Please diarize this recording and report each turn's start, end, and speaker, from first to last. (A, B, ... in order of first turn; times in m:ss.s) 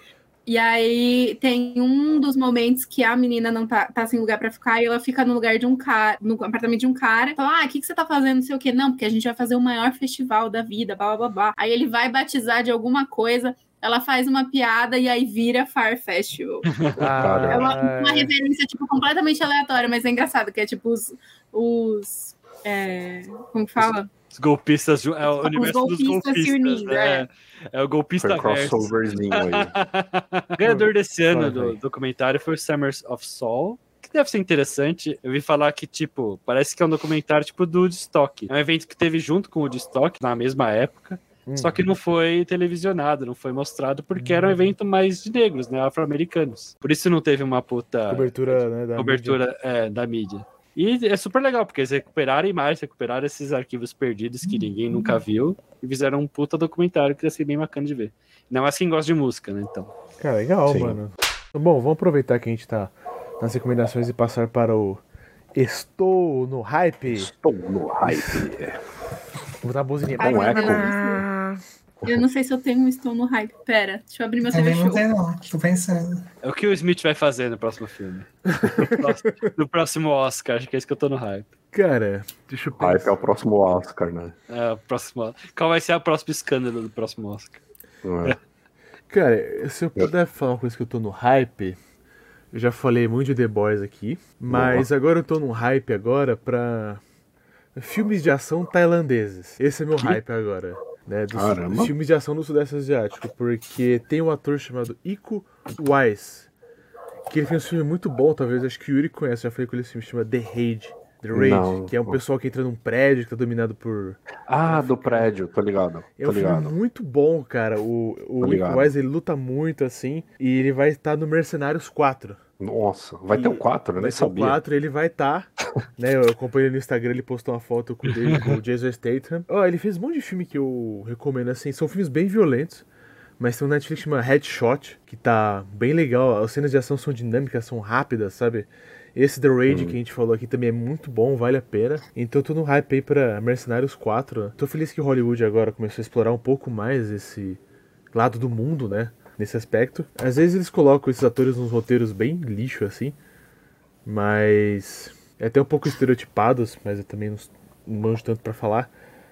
0:00.5-0:16.7 A
0:16.7-0:17.0 B
0:17.0-0:18.3 C
0:17.2-0:17.7 D
0:17.5-0:24.1 A
0:24.3-0:59.9 B
0:25.3-0:27.3 A
0:28.2-0:29.8 D
0:30.6-0:31.8 C
0:41.5-0:41.8 C
0:44.2-0:44.7 C
0:48.1-0:49.4 C
0:54.4-0:55.2 E
1:00.2-1:05.0 C
1:00.7-1:01.0 D
1:05.6-1:07.3 C
1:07.1-1:08.8 D
1:08.0-1:08.5 C
1:09.6-1:11.6 C
1:10.2-1:10.9 D
1:10.2-1:11.2 A
1:12.0-1:15.0 A
1:14.5-1:16.2 E
1:16.4-1:21.5 B
1:18.5-1:19.5 C
1:21.7-1:23.2 C
1:22.8-1:24.3 D
1:24.5-1:27.6 B
1:28.0-1:28.4 D
1:29.1-1:31.8 C
1:32.5-1:37.0 C
1:34.5-1:34.9 D
1:37.8-1:46.5 C
1:41.3-1:41.9 D
1:47.3-1:55.3 C
1:51.3-1:52.2 D
1:54.5-1:56.8 D
1:56.2-2:02.4 C
1:58.4-1:58.9 D
2:02.6-2:04.6 D
2:03.3-2:12.8 C
2:13.4-2:27.6 C
2:19.7-2:20.0 D
2:28.1-2:33.2 C
2:34.0-2:38.9 C